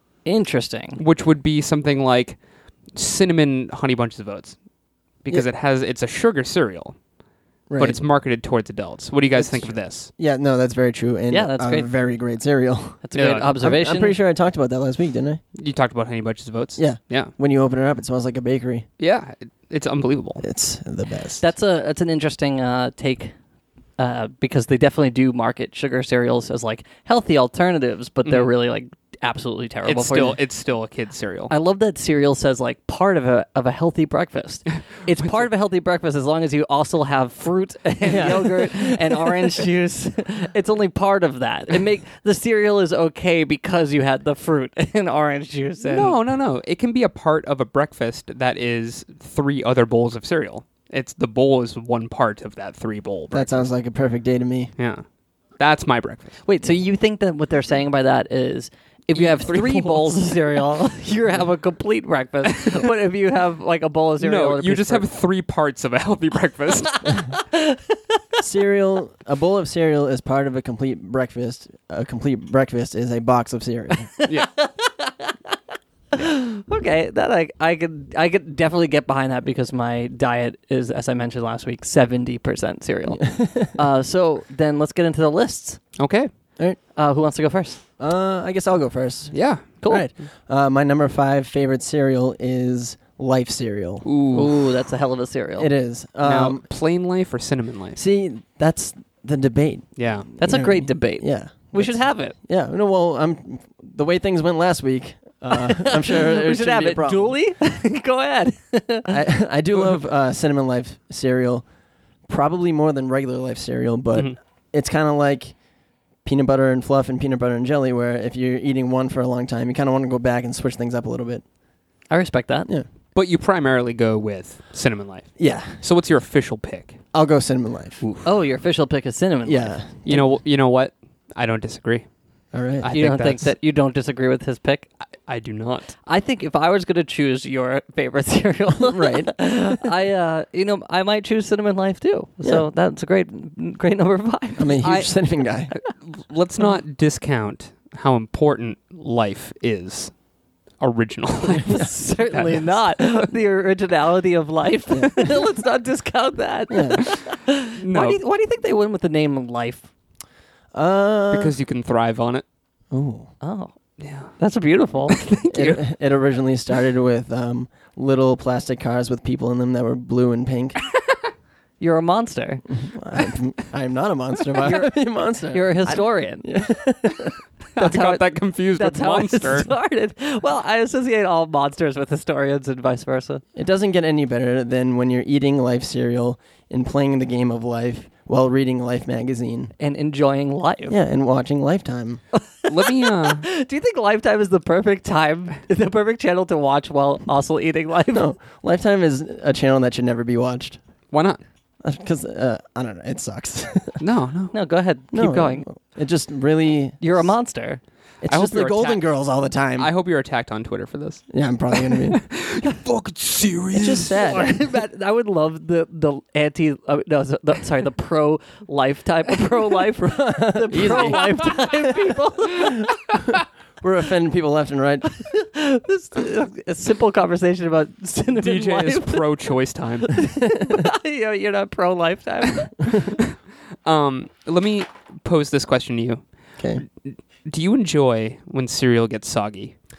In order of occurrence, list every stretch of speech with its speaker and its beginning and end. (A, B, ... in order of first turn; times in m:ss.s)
0:00.3-0:01.0 A
0:01.0-0:02.4 B
0:02.9-0:04.6 B
0:05.2-0:07.0 B
0:07.7-0:08.0 C
0:07.8-0:10.1 B
0:09.4-0:15.4 C
0:11.3-0:11.9 A
0:13.0-0:14.2 A
0:13.1-0:13.5 B
0:15.6-0:17.3 B
0:16.8-0:18.9 C
0:19.0-0:20.4 B
0:20.4-0:21.4 C
0:21.4-0:23.3 A
0:24.0-0:30.4 A
0:29.8-0:31.5 B
0:31.5-0:46.2 A
0:35.2-0:35.5 B
0:38.1-0:39.6 C
0:45.8-0:53.7 B
0:53.3-0:54.7 C
0:54.8-0:55.0 B
0:55.6-0:56.4 B
0:56.4-1:05.0 A
0:59.1-1:00.3 B
1:04.2-1:07.2 B
1:07.3-1:08.0 A
1:08.4-1:14.1 C
1:14.2-1:15.5 A
1:16.1-1:25.8 A
1:23.1-1:23.8 C
1:26.0-1:26.3 B
1:27.0-1:27.8 A
1:28.0-1:34.0 C
1:29.3-1:29.6 B
1:29.8-1:30.1 A
1:34.0-1:34.5 B
1:34.3-1:35.7 A
1:35.6-1:36.6 C
1:36.2-1:38.0 B
1:38.0-1:47.4 C
1:40.0-1:40.3 B
1:40.4-1:42.4 A
1:45.5-1:49.2 A
1:49.1-1:51.6 C
1:52.3-1:55.6 C
1:56.2-2:01.4 C
2:02.1-2:02.7 A
2:03.1-2:07.0 B
2:05.4-2:05.8 C
2:07.1-2:08.0 C
2:08.0-2:08.3 B
2:08.2-2:09.8 A
2:09.4-2:10.2 C
2:10.1-2:12.1 B
2:12.5-2:12.9 C
2:12.8-2:13.5 B
2:12.9-2:14.9 A
2:15.3-2:15.9 B
2:16.1-2:24.9 A
2:18.8-2:19.4 C
2:24.6-2:25.7 C
2:24.8-2:25.1 B
2:25.7-2:30.1 B
2:30.8-2:32.8 B
2:31.6-2:39.9 A
2:36.7-2:37.0 C
2:37.8-2:38.2 B
2:40.7-2:41.5 C
2:41.3-2:42.4 B
2:42.9-2:43.3 C
2:43.4-2:43.7 A
2:44.0-2:44.3 B
2:44.3-2:45.3 A
2:45.1-2:45.8 B
2:45.5-2:50.8 C
2:51.8-2:52.6 A
2:52.8-2:57.4 C
2:54.6-2:55.0 A
2:55.5-2:56.5 A
2:57.8-2:59.7 B
2:57.8-3:03.4 A
3:03.6-3:09.7 C
3:09.8-3:11.0 A
3:10.9-3:12.2 C
3:12.4-3:18.3 A
3:12.7-3:13.5 B
3:18.1-3:20.8 C
3:21.1-3:21.4 B
3:21.8-3:24.0 C
3:24.0-3:24.6 B
3:24.5-3:25.7 A
3:25.1-3:27.3 C
3:27.0-3:27.8 A
3:28.2-3:29.9 C
3:28.3-3:29.0 B
3:29.8-3:34.3 B
3:31.3-3:32.2 C
3:33.7-3:34.6 C
3:34.1-3:42.9 A
3:40.0-3:41.3 C
3:40.8-3:41.6 B
3:43.8-3:45.1 C
3:45.2-3:49.3 A
3:48.3-3:50.3 B
3:50.2-3:52.8 A
3:53.8-3:56.2 B
3:56.6-3:56.8 C
3:56.8-3:59.8 B